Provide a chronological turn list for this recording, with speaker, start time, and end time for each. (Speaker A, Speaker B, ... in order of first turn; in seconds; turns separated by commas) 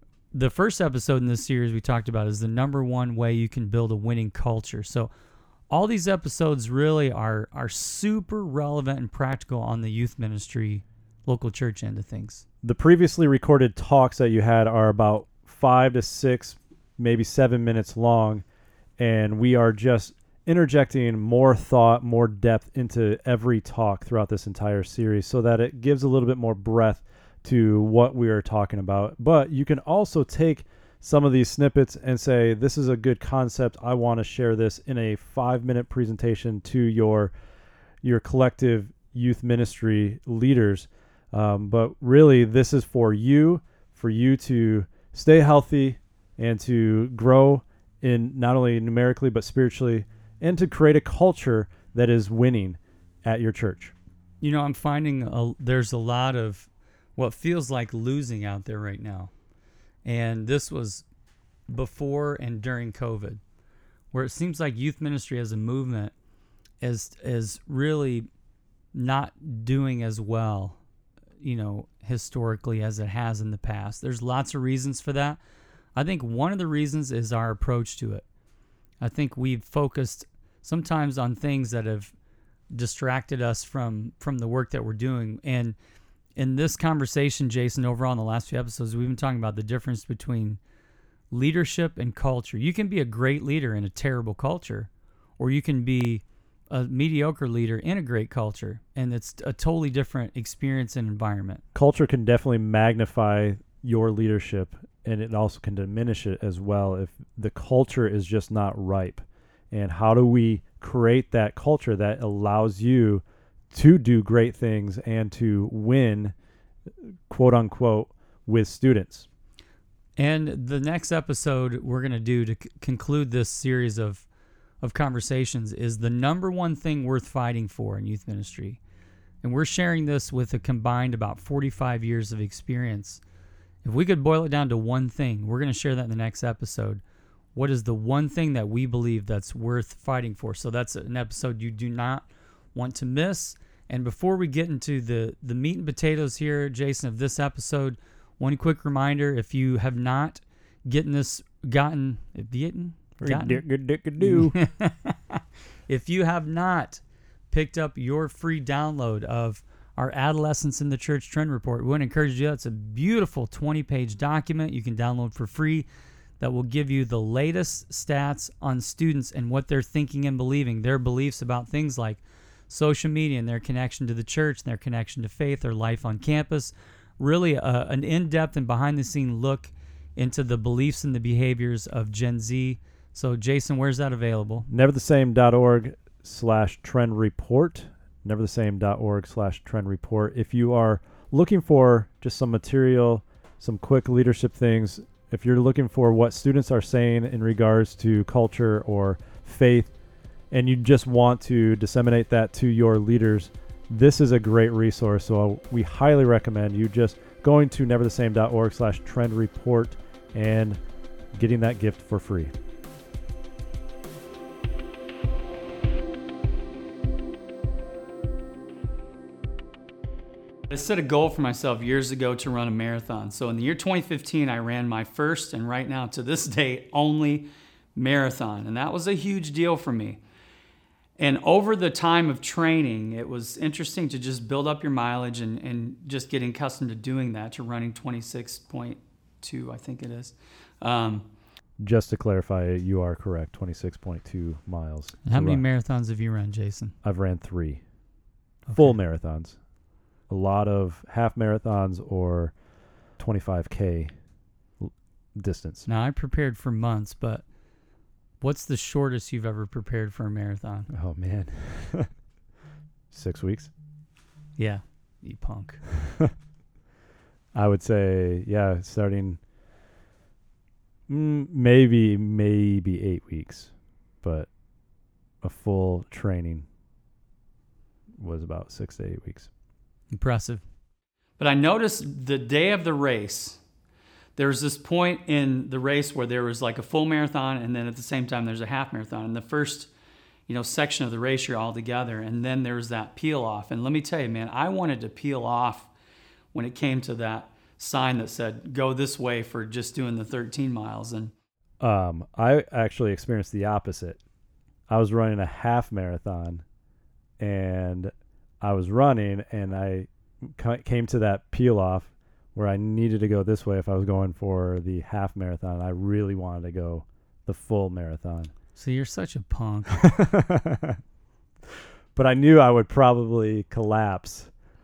Speaker A: 0.3-5.1, Speaker A: 5.7-12.4, Speaker B: 12.6-18.4, Speaker B: 19.0-37.3, Speaker B: 38.0-54.0, Speaker A: 54.4-59.3, Speaker A: 60.0-61.0, Speaker A: 61.7-63.4, Speaker A: 64.1-66.1, Speaker A: 66.8-68.3, Speaker A: 68.9-70.8, Speaker A: 71.4-75.4, Speaker A: 76.0-78.2, Speaker A: 79.0-82.1, Speaker A: 82.7-85.8, Speaker A: 86.4-90.6, Speaker A: 91.3-101.6, Speaker B: 101.8-116.3, Speaker B: 117.3-119.3, Speaker A: 120.2-124.3, Speaker A: 124.8-128.8, Speaker A: 129.4-133.2, Speaker A: 133.8-137.0, Speaker A: 137.6-153.7, Speaker B: 153.2-154.5, Speaker A: 154.2-165.9, Speaker A: 166.4-184.7, Speaker B: 184.7-199.9, Speaker B: 200.5-210.8, Speaker B: 211.3-212.5, Speaker A: 220.7-230.2, Speaker A: 231.2-241.3, Speaker B: 241.8-245.6, Speaker A: 245.2-246.9, Speaker B: 247.0-247.8, Speaker A: 248.7-249.0, Speaker B: 248.7-249.6, Speaker B: 250.3-252.5, Speaker B: 253.2-254.1, Speaker B: 254.8-255.9, Speaker A: 255.9-257.4, Speaker A: 258.4-260.9, Speaker B: 260.9-262.1, Speaker B: 263.1-263.7, Speaker A: 264.6-265.8, Speaker B: 267.5-269.4, Speaker B: 271.1-274.5, Speaker B: 275.4-276.7, Speaker B: 278.2-279.5, Speaker A: 280.1-280.6, Speaker A: 281.4-283.6, Speaker A: 284.4-289.9, Speaker A: 290.5-295.9, Speaker A: 296.5-301.3, Speaker B: 301.8-304.2, Speaker B: 304.9-306.6, Speaker B: 307.4-318.5, Speaker A: 318.8-320.0, Speaker B: 320.0-321.0, Speaker B: 322.1-324.5